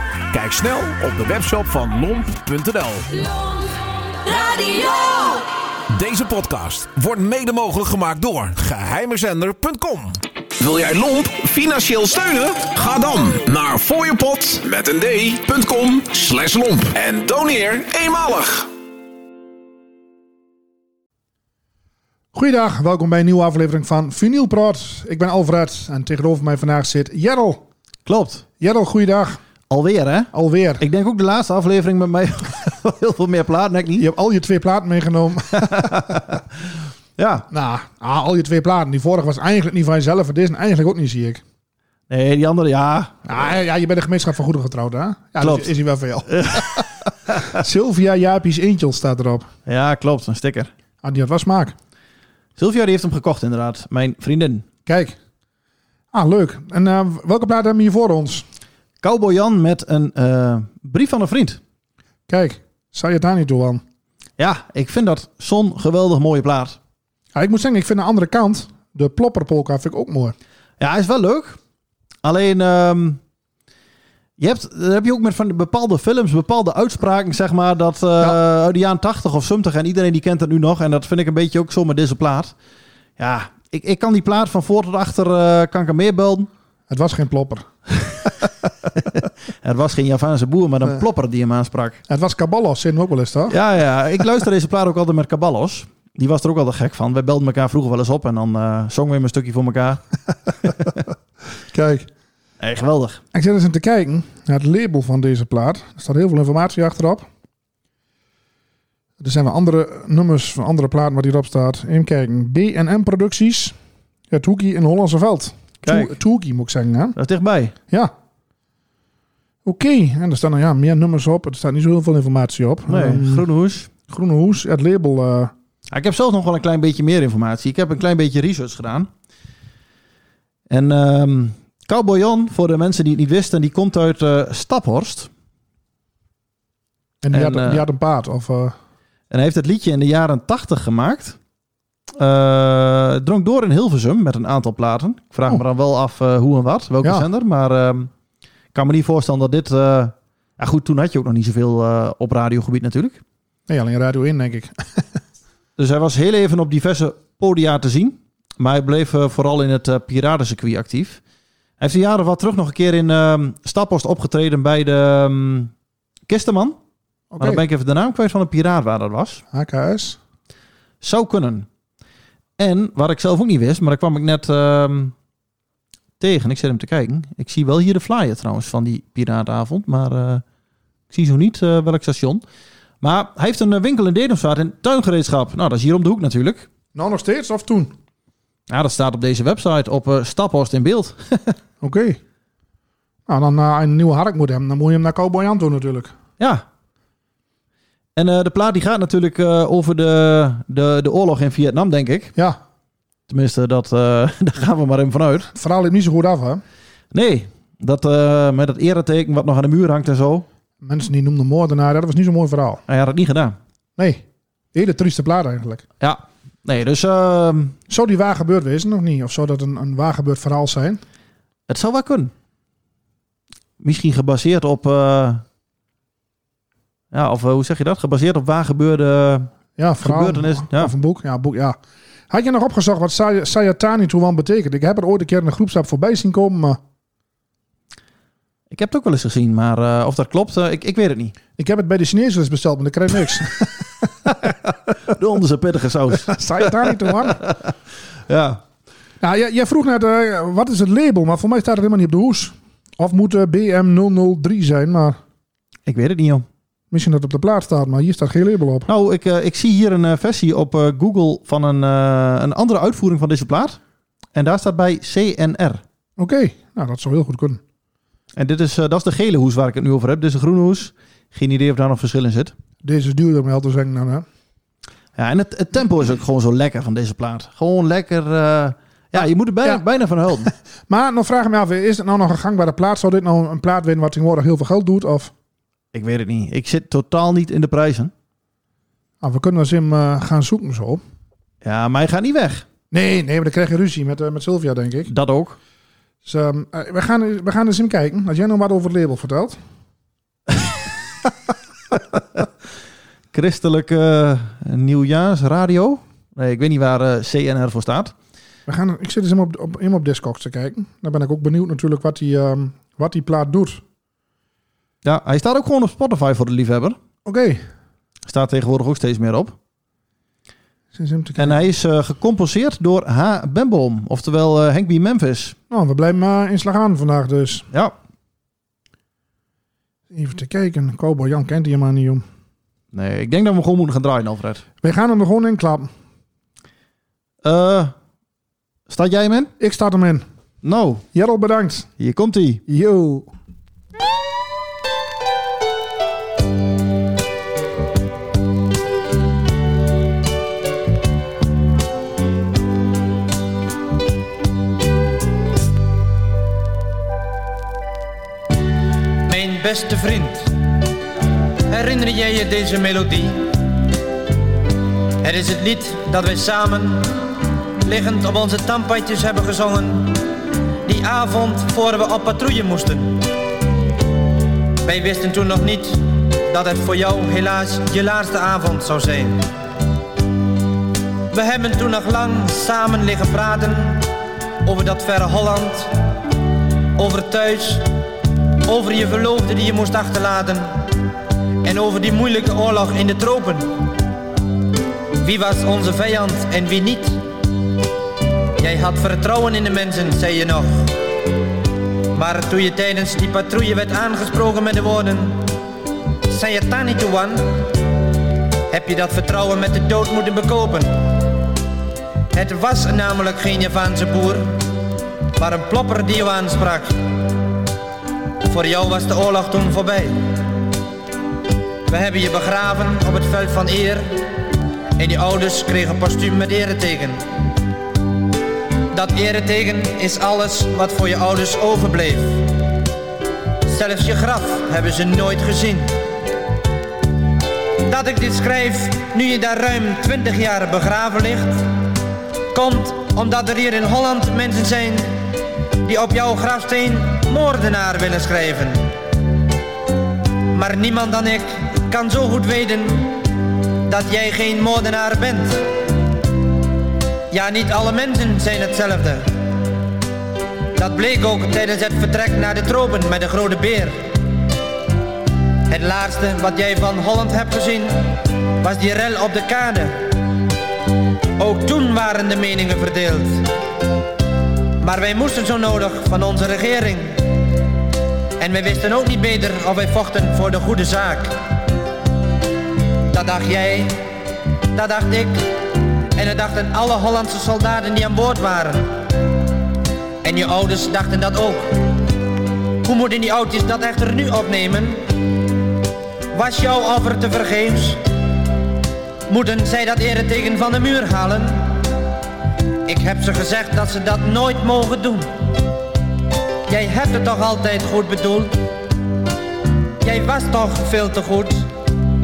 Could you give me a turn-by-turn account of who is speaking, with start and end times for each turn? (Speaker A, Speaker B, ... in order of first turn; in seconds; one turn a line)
Speaker A: 0.3-3.3
Speaker A: 4.2-18.7
Speaker B: 22.3-27.6
Speaker C: 28.1-28.4
Speaker B: 28.6-29.4
Speaker C: 29.7-34.0
Speaker B: 30.3-30.8
Speaker B: 34.0-36.1
Speaker C: 36.1-36.4
Speaker C: 37.2-37.5
Speaker B: 37.5-41.4
Speaker C: 42.1-43.2
Speaker B: 43.2-46.8
Speaker C: 45.4-45.7
Speaker C: 46.2-47.5
Speaker B: 47.5-49.5
Speaker C: 49.6-50.7
Speaker B: 51.0-51.7
Speaker C: 52.6-54.6
Speaker B: 54.9-55.1
Speaker B: 56.1-58.4
Speaker C: 59.0-61.6
Speaker B: 62.3-63.8
Speaker C: 64.4-66.8
Speaker B: 67.3-70.3
Speaker C: 70.8-71.6
Speaker C: 72.2-73.2
Speaker C: 74.4-82.5
Speaker C: 83.2-86.5
Speaker B: 86.9-87.6
Speaker C: 89.0-92.0
Speaker B: 92.1-93.6
Speaker C: 93.5-100.5
Speaker B: 101.7-102.0
Speaker C: 102.6-103.2
Speaker B: 103.3-107.2
Speaker B: 109.2-113.7
Speaker B: 114.3-117.1
Speaker C: 115.8-116.2
Speaker C: 117.2-117.7
Speaker B: 119.6-123.5
Speaker C: 122.9-123.9
Speaker B: 124.1-125.5
Speaker C: 125.9-129.1
Speaker C: 130.7-135.3
Speaker B: 137.2-138.7
Speaker C: 137.3-137.8
Speaker C: 139.3-141.4
Speaker C: 142.2-148.1
Speaker C: 148.7-153.2
Speaker B: 153.7-155.0
Speaker C: 155.8-161.2
Speaker C: 161.8-165.7
Speaker C: 166.3-166.8
Speaker B: 167.3-167.6
Speaker C: 167.4-169.4
Speaker B: 169.5-170.2
Speaker C: 171.0-171.7
Speaker C: 172.6-175.1
Speaker C: 176.2-180.4
Speaker C: 181.1-182.4
Speaker C: 183.0-186.7
Speaker B: 186.9-187.9
Speaker C: 188.7-191.6
Speaker B: 191.8-192.2
Speaker B: 193.3-196.1
Speaker C: 196.4-196.6
Speaker C: 198.2-202.3
Speaker C: 203.3-205.5
Speaker B: 205.5-206.6
Speaker C: 207.1-210.4
Speaker B: 210.8-212.8
Speaker C: 212.9-213.6
Speaker B: 214.0-215.8
Speaker C: 216.0-217.8
Speaker B: 217.9-221.0
Speaker C: 221.7-222.3
Speaker C: 223.8-225.4
Speaker C: 227.1-229.5
Speaker B: 229.8-231.8
Speaker C: 230.0-230.9
Speaker B: 232.3-236.8
Speaker C: 238.7-241.3
Speaker B: 241.6-243.7
Speaker C: 245.1-247.7
Speaker B: 246.3-247.4
Speaker C: 248.3-248.6
Speaker B: 249.2-255.2
Speaker C: 255.8-256.4
Speaker B: 256.9-258.9
Speaker C: 258.9-263.8
Speaker C: 264.3-265.8
Speaker B: 266.2-267.6
Speaker C: 268.4-272.5
Speaker B: 272.8-274.2
Speaker C: 275.1-280.5
Speaker B: 279.2-279.8
Speaker B: 280.9-285.3
Speaker C: 285.9-288.1
Speaker B: 289.2-291.0
Speaker C: 291.6-292.6
Speaker B: 292.9-295.1
Speaker C: 295.1-295.6
Speaker B: 296.2-299.6
Speaker C: 303.3-308.1
Speaker B: 308.7-313.8
Speaker C: 315.0-317.0
Speaker B: 317.2-317.6
Speaker C: 318.2-319.5
Speaker B: 320.9-321.6
Speaker C: 321.4-325.6
Speaker B: 325.7-327.7
Speaker B: 330.1-332.2
Speaker C: 332.9-334.6
Speaker B: 334.8-335.9
Speaker C: 337.4-337.9
Speaker C: 338.9-339.5
Speaker B: 339.6-340.2
Speaker C: 340.6-341.0
Speaker B: 341.1-341.9
Speaker C: 342.0-342.6
Speaker B: 342.6-343.3
Speaker D: 359.2-360.8
Speaker D: 361.6-363.8
Speaker D: 365.2-370.2
Speaker D: 370.8-373.3
Speaker D: 374.8-379.5
Speaker D: 381.3-384.1
Speaker D: 384.6-385.9
Speaker D: 386.9-387.9
Speaker D: 388.6-390.9
Speaker D: 391.6-393.9
Speaker D: 395.2-397.2
Speaker D: 398.6-401.0
Speaker D: 402.1-405.5
Speaker D: 406.2-407.8
Speaker D: 408.7-411.2
Speaker D: 412.3-414.6
Speaker D: 415.3-417.0
Speaker D: 418.4-420.4
Speaker D: 421.9-427.2
Speaker D: 428.9-432.8
Speaker D: 433.6-436.0
Speaker D: 437.8-441.9
Speaker D: 442.5-448.9
Speaker D: 450.5-455.7
Speaker D: 457.3-459.4
Speaker D: 460.8-464.1
Speaker D: 465.7-470.2
Speaker D: 471.4-473.6
Speaker D: 474.8-477.6
Speaker D: 478.4-481.4
Speaker D: 483.1-489.2
Speaker D: 490.2-492.0
Speaker D: 492.8-495.5
Speaker D: 496.3-498.0
Speaker D: 499.2-501.9
Speaker D: 502.8-505.3
Speaker D: 506.7-508.6
Speaker D: 510.0-511.7